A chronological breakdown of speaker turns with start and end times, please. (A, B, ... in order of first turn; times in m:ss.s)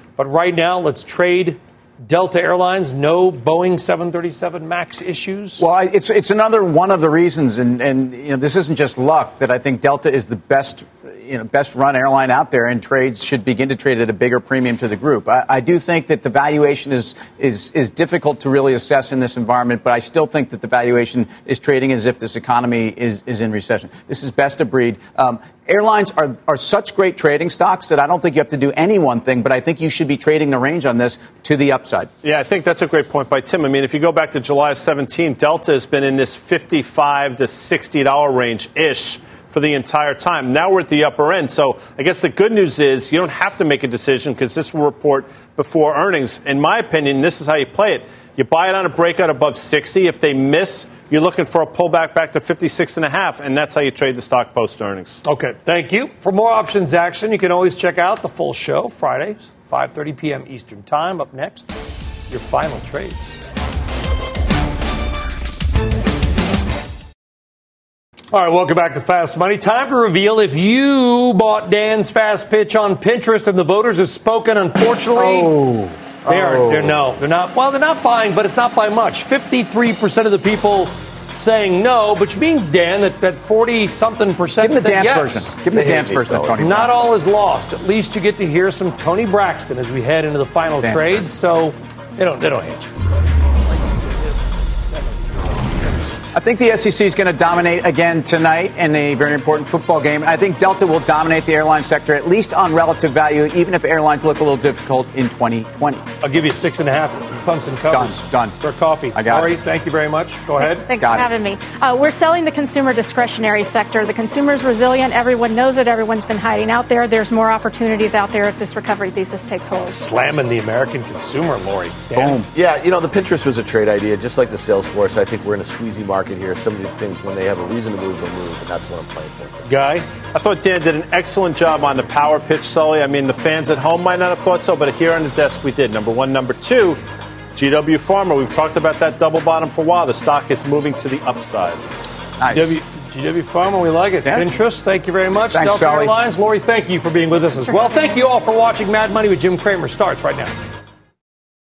0:00.2-0:05.6 A
0:05.6-0:32.1 B
0:32.2-0:55.2 C
0:55.2-1:01.7 A
1:02.3-1:03.4 A
1:08.3-1:15.6 A
1:15.1-1:17.0 B
1:16.2-1:25.5 A
1:24.6-1:26.9 B
1:25.7-1:26.6 D
1:26.6-1:32.9 A
1:30.8-1:31.1 B
1:36.3-1:46.1 B
1:46.2-1:50.9 A
1:47.9-1:48.6 B
1:49.1-1:49.5 B
1:50.6-2:00.0 E
1:51.0-1:51.3 B
1:59.8-2:02.4 A
2:02.1-2:02.4 B
2:02.5-2:09.6 D
2:09.6-2:10.1 A
2:10.3-2:17.0 C
2:17.5-2:21.8 C
2:22.4-2:22.7 B
2:22.5-2:30.5 A
2:24.2-2:24.5 B
2:25.5-2:26.1 B